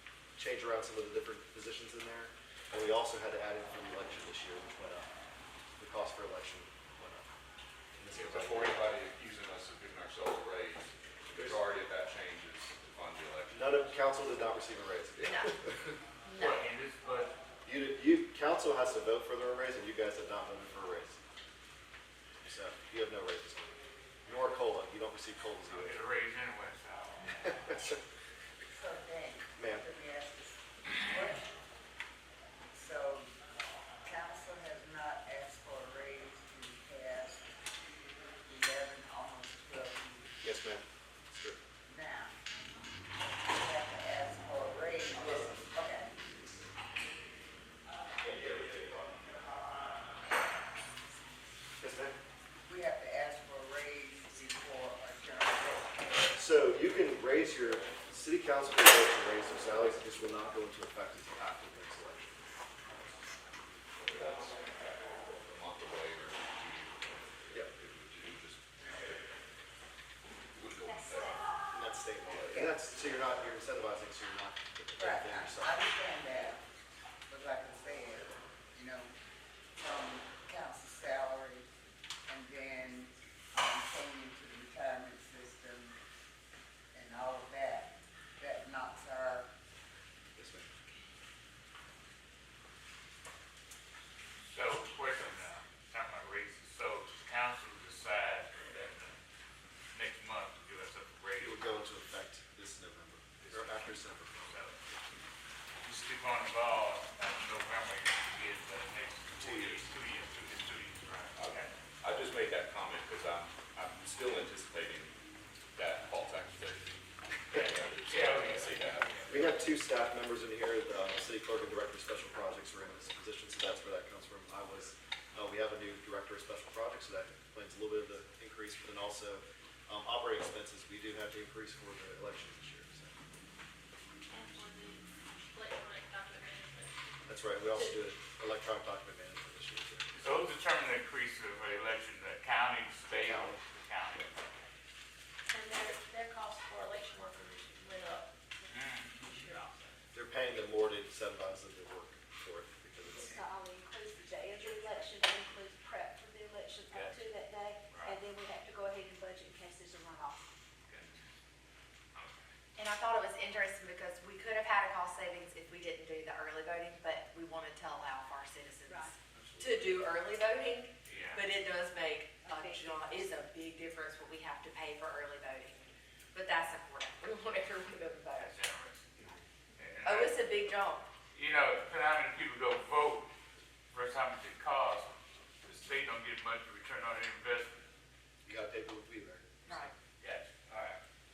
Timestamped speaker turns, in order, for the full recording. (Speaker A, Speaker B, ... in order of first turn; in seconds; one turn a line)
Speaker A: 0.3-5.1
Speaker A: 5.8-7.3
Speaker A: 8.0-8.9
Speaker B: 8.1-14.0
Speaker A: 11.3-11.7
Speaker A: 13.5-16.0
Speaker C: 15.2-15.5
Speaker C: 16.2-16.6
Speaker D: 16.4-17.3
Speaker A: 17.6-21.2
Speaker A: 22.4-26.0
Speaker D: 25.6-27.5
Speaker A: 27.3-28.0
Speaker E: 28.6-31.5
Speaker A: 29.6-29.9
Speaker E: 32.7-33.3
Speaker E: 34.0-37.4
Speaker E: 38.5-40.3
Speaker A: 40.4-41.6
Speaker E: 41.8-42.4
Speaker E: 43.4-46.1
Speaker A: 48.2-49.3
Speaker A: 51.8-52.2
Speaker E: 52.6-56.3
Speaker A: 56.3-62.6
Speaker B: 63.9-69.2
Speaker B: 70.5-71.5
Speaker F: 70.8-71.7
Speaker A: 71.7-75.7
Speaker E: 75.0-76.6
Speaker E: 77.3-79.1
Speaker E: 79.8-81.7
Speaker E: 82.3-86.0
Speaker E: 86.9-89.5
Speaker A: 90.3-90.7
Speaker D: 94.5-99.2
Speaker D: 99.9-101.6
Speaker A: 101.4-104.6
Speaker D: 103.4-104.8
Speaker D: 105.8-111.7
Speaker A: 109.3-109.9
Speaker B: 111.3-115.2
Speaker B: 115.7-116.9
Speaker B: 117.5-119.2
Speaker D: 117.5-119.4
Speaker A: 119.3-133.2
Speaker G: 134.3-138.0
Speaker A: 137.2-140.2
Speaker D: 140.1-144.4
Speaker A: 143.2-143.6
Speaker G: 145.5-150.0
Speaker D: 148.7-149.2
Speaker A: 150.1-153.4
Speaker F: 153.1-160.4
Speaker D: 156.9-157.3
Speaker D: 157.9-158.2
Speaker D: 160.9-161.2
Speaker D: 162.1-162.4
Speaker C: 162.8-178.6
Speaker F: 168.9-169.1
Speaker D: 171.1-171.5
Speaker F: 172.4-173.4
Speaker D: 178.3-179.2
Speaker D: 179.8-180.4
Speaker C: 180.0-181.0
Speaker D: 181.3-183.3
Speaker D: 183.9-187.9
Speaker A: 188.4-189.8
Speaker C: 189.6-189.9
Speaker D: 190.2-191.0